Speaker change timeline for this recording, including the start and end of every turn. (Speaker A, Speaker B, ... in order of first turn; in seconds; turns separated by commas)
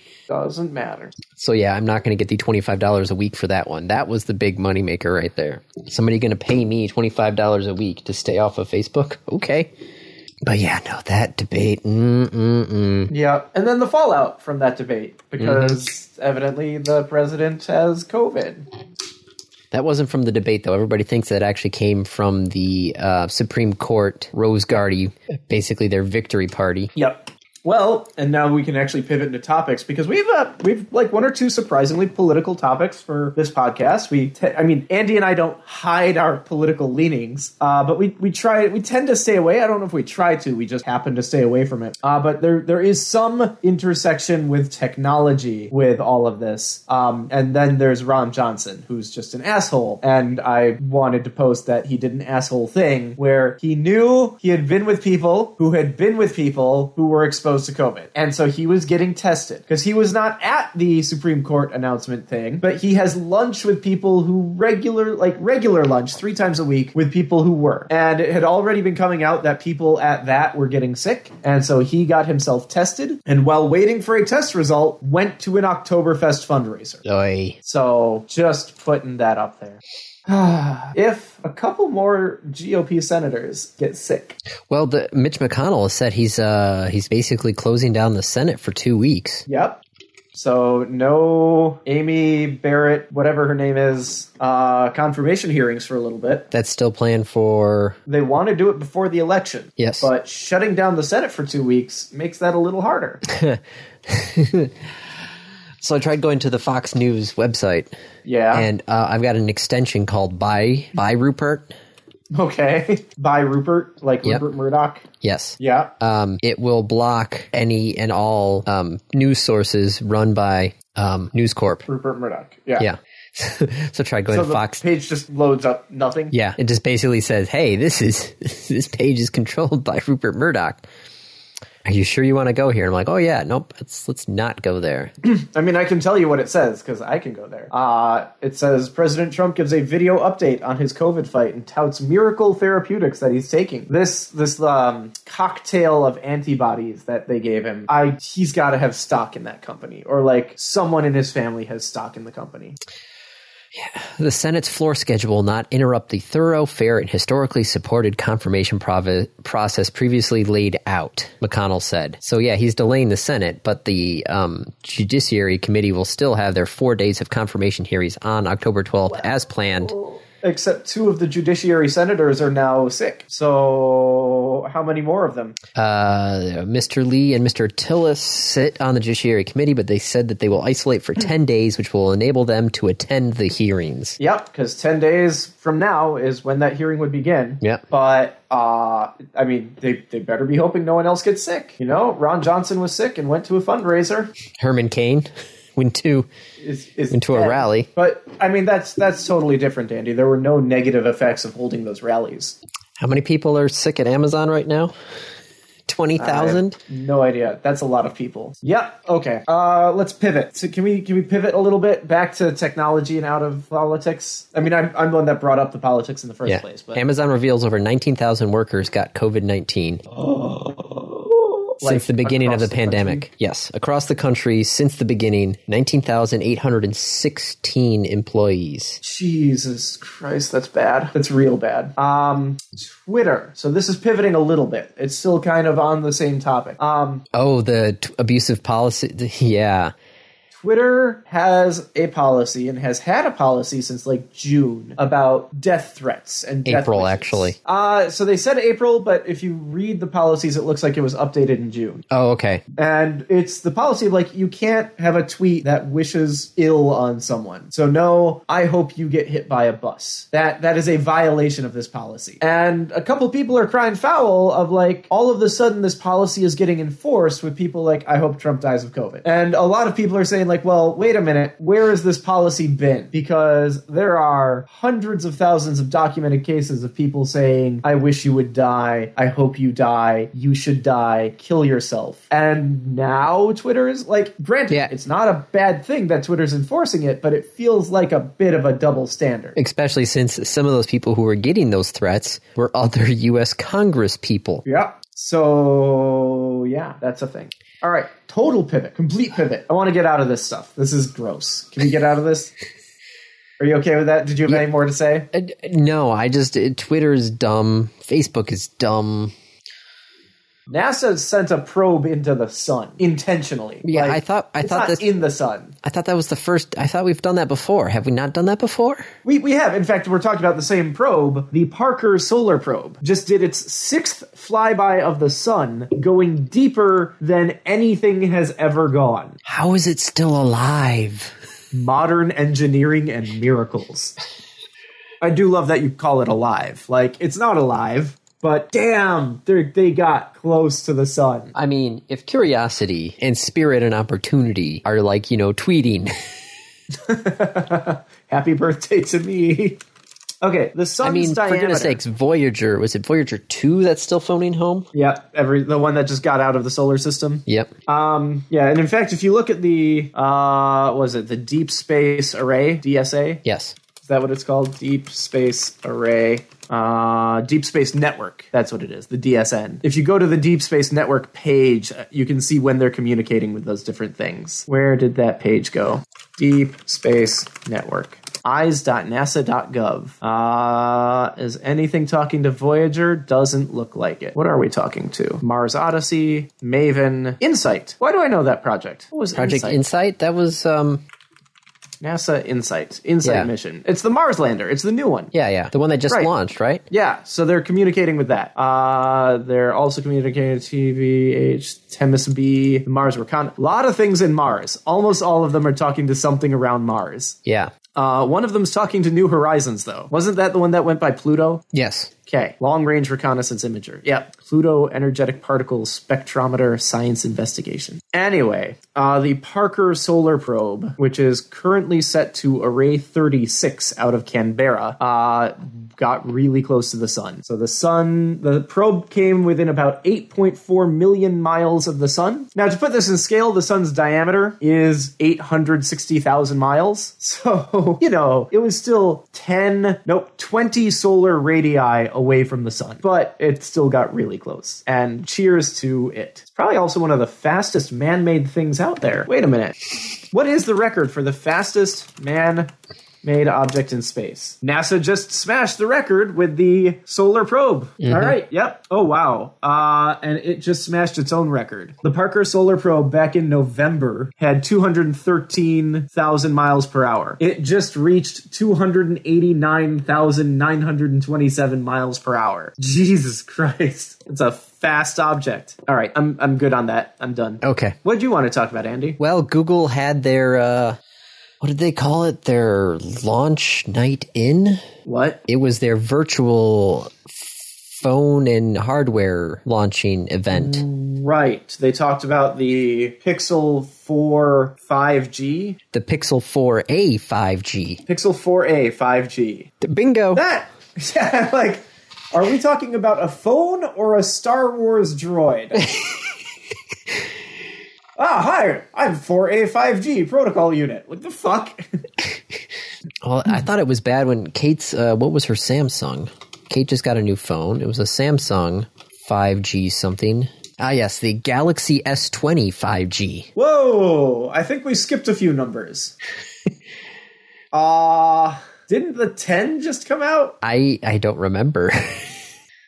Speaker A: 0.3-1.1, Speaker B: 1.3-9.7, Speaker B: 10.4-13.1, Speaker A: 13.1-18.7, Speaker B: 15.4-15.8, Speaker B: 19.7-26.9, Speaker A: 26.9-77.0, Speaker B: 77.0-77.6, Speaker A: 77.6-84.4, Speaker B: 84.7-89.5, Speaker A: 89.5-89.8, Speaker A: 90.3-96.5, Speaker B: 96.5-98.0, Speaker A: 98.1-103.2, Speaker B: 99.8-100.1, Speaker B: 103.3-104.9, Speaker B: 105.8-107.9, Speaker A: 108.2-108.7, Speaker B: 108.5-111.7, Speaker A: 112.3-115.1, Speaker B: 115.2-121.9, Speaker A: 115.6-115.9, Speaker A: 121.9-122.9, Speaker B: 122.8-124.8, Speaker A: 124.3-126.3, Speaker B: 126.3-130.8, Speaker B: 131.8-135.1, Speaker A: 135.2-152.8, Speaker B: 153.7-169.9, Speaker A: 169.8-175.6, Speaker B: 175.8-184.2, Speaker A: 184.2-194.3, Speaker B: 194.6-196.3, Speaker A: 196.6-202.6, Speaker B: 197.1-197.9, Speaker B: 203.0-204.9, Speaker B: 205.9-206.8, Speaker A: 206.2-217.0, Speaker B: 216.5-220.0, Speaker A: 220.1-223.3, Speaker B: 221.8-229.0, Speaker A: 229.0-237.2, Speaker B: 237.3-239.9, Speaker A: 240.5-252.0, Speaker B: 246.7-247.6, Speaker B: 252.1-252.6, Speaker A: 252.8-289.6, Speaker B: 289.6-294.6, Speaker A: 294.6-302.5, Speaker A: 303.6-305.3, Speaker B: 305.3-309.3, Speaker A: 310.7-315.8, Speaker B: 313.8-315.1, Speaker B: 315.8-319.1, Speaker A: 319.2-329.4, Speaker B: 329.5-331.3, Speaker A: 331.7-334.2, Speaker A: 335.2-341.6, Speaker B: 341.6-346.1, Speaker A: 347.0-349.8, Speaker A: 350.4-352.0, Speaker B: 351.0-354.9, Speaker A: 354.9-363.4, Speaker B: 363.4-363.8, Speaker A: 364.0-389.8, Speaker B: 389.4-391.0, Speaker A: 392.0-395.3, Speaker B: 393.2-393.5, Speaker B: 395.3-396.8, Speaker A: 396.9-407.4, Speaker B: 407.5-407.7, Speaker A: 407.9-411.7, Speaker B: 411.7-412.1, Speaker A: 412.3-449.8, Speaker A: 450.3-452.7, Speaker A: 453.2-479.2, Speaker B: 458.0-458.4, Speaker B: 477.6-478.0, Speaker B: 479.2-481.0, Speaker B: 481.6-484.8, Speaker A: 485.1-485.4, Speaker B: 485.5-490.9, Speaker A: 490.5-495.8, Speaker B: 495.9-498.0, Speaker A: 498.1-499.7, Speaker B: 499.8-500.4, Speaker A: 500.3-505.9, Speaker A: 508.2-512.0, Speaker B: 513.2-523.5, Speaker A: 523.6-526.1, Speaker A: 527.7-530.6, Speaker B: 530.6-532.5